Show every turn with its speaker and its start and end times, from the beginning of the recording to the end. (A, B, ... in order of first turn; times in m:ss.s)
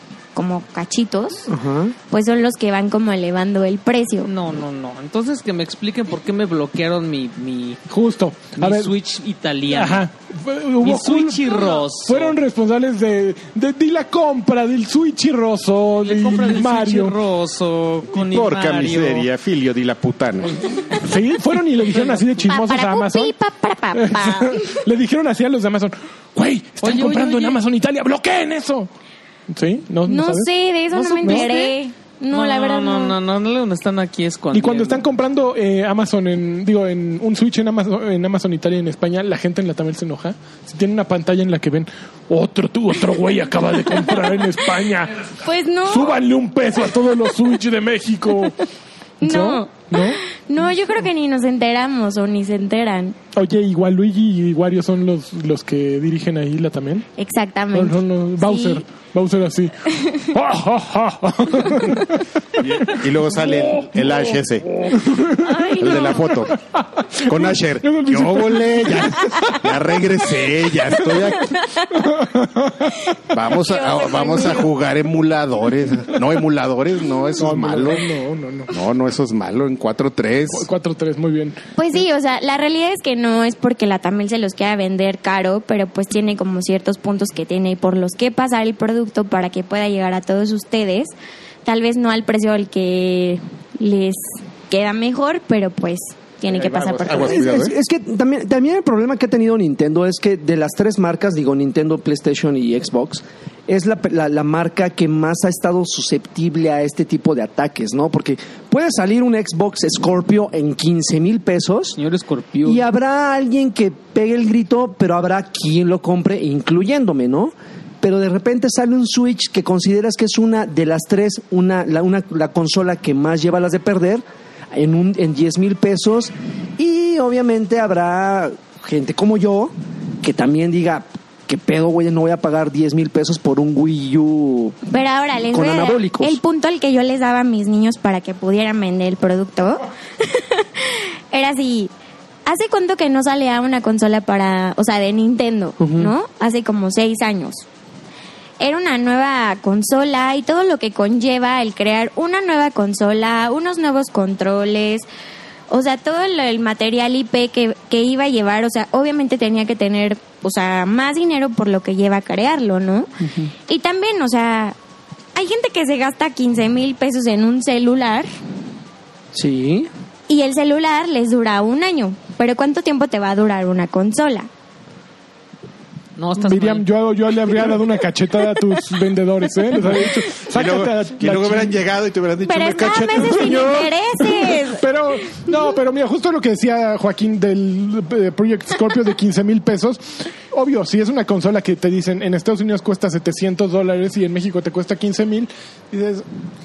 0:00.4-0:01.5 A
0:01.5-0:02.0 B
0:02.1-0:04.3 A
0:04.2-0:07.8 C
0:07.9-0:08.9 D
0:08.6-0:10.1 C
0:09.7-0:17.2 D
0:10.8-0:12.4 C
0:16.0-0:19.3 C
0:18.1-0:20.5 E
0:21.0-0:23.3 D
0:21.9-0:22.3 C
0:22.4-0:24.8 A
0:23.9-0:28.9 D
0:26.8-0:27.6 C
0:29.5-0:30.5 D
0:30.0-0:33.2 A
0:31.0-0:31.7 C
0:31.2-0:31.6 D
0:32.3-0:35.1 C
0:34.5-0:48.6 D
0:45.4-0:46.2 A
0:49.2-0:53.2 A
0:49.2-0:50.2 D
0:53.4-0:57.1 D
0:57.2-0:58.9 A
0:57.7-0:59.7 D
1:00.0-1:00.4 A
1:00.3-1:02.3 D
1:02.6-1:04.7 E
1:02.8-1:09.8 D
1:05.4-1:06.4 A
1:05.8-1:06.6 E
1:07.3-1:11.5 E
1:10.8-1:11.2 D
1:11.4-1:12.1 A
1:11.9-1:13.2 D
1:13.3-1:18.0 E
1:13.5-1:14.7 A
1:17.4-1:18.7 D
1:18.7-1:20.7 E
1:20.5-1:21.6 D
1:21.8-1:31.1 A
1:31.6-1:37.6 A
1:36.5-1:37.7 E
1:37.1-1:52.0 B
1:52.0-1:52.8 C
1:52.6-2:14.8 B
2:14.9-2:21.9 A
2:15.5-2:16.4 B
2:22.5-2:27.6 A
2:25.8-2:26.1 B
2:28.6-2:35.1 A
2:35.7-2:43.1 A
2:43.2-2:43.5 B
2:43.7-2:44.8 A
2:45.3-2:48.3 A
2:49.3-2:49.9 B
2:50.3-2:54.5 A
2:56.2-2:56.9 C
2:56.4-3:01.8 D
3:00.5-3:03.9 E
3:02.4-3:04.8 A
3:03.3-3:16.3 D